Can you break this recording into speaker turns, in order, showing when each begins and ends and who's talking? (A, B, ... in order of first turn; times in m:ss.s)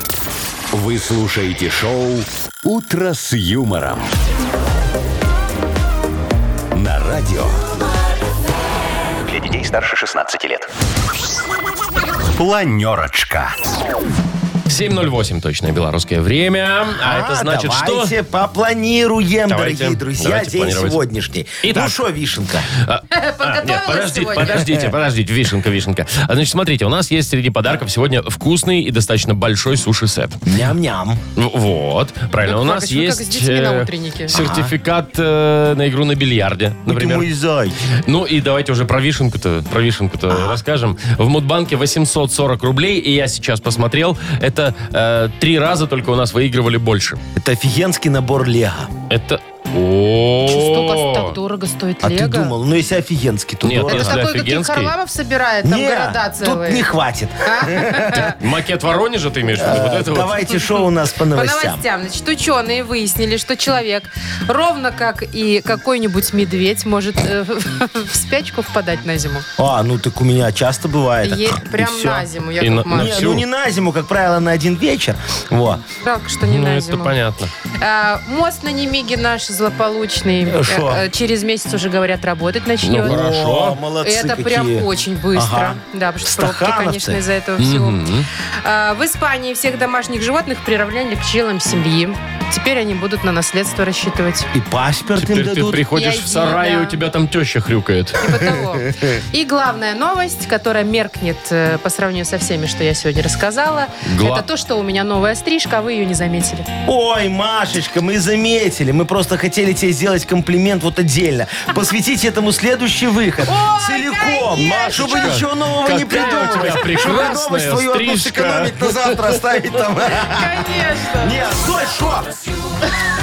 0:00.7-0:04.1 A
0:06.7-0:07.6 A
0:09.2-0:10.7 A
0:12.3-0:13.6 A
0:14.7-0:18.1 B
0:17.0-0:22.7 C
0:19.5-0:21.0 B
0:21.6-0:22.0 B
0:22.7-0:30.4 B
0:23.1-0:24.6 D
0:30.5-0:31.2 C
0:31.4-0:37.3 B
0:32.4-0:34.3 D
0:34.3-0:34.8 C
0:36.8-0:37.8 C
0:38.0-0:47.2 B
0:40.3-0:40.6 C
0:47.4-0:48.9 C
0:49.1-0:51.4 B
0:50.5-0:52.5 D
0:52.0-0:54.2 C
0:53.6-0:54.9 B
0:53.8-0:56.9 D
0:55.6-0:58.3 C
0:57.4-0:58.4 D
0:58.2-1:00.4 B
0:59.5-1:01.8 C
1:01.3-1:09.4 D
1:09.6-1:12.3 C
1:11.2-1:13.2 D
1:12.6-1:13.4 B
1:12.9-1:15.8 C
1:16.0-1:17.2 D
1:16.4-1:17.5 B
1:17.8-1:23.2 D
1:20.4-1:21.0 C
1:22.8-1:23.8 B
1:23.0-1:27.2 C
1:24.0-1:28.0 D
1:27.6-1:28.3 B
1:28.6-1:34.5 D
1:34.5-1:35.9 C
1:35.1-1:38.2 B
1:35.9-1:37.0 D
1:38.2-1:46.7 D
1:38.3-1:39.1 C
1:44.0-1:44.4 B
1:46.8-2:00.6 C
1:53.4-1:55.4 D
1:55.0-1:59.4 B
1:56.2-1:57.0 D
2:00.1-2:01.4 D
2:01.2-2:02.3 C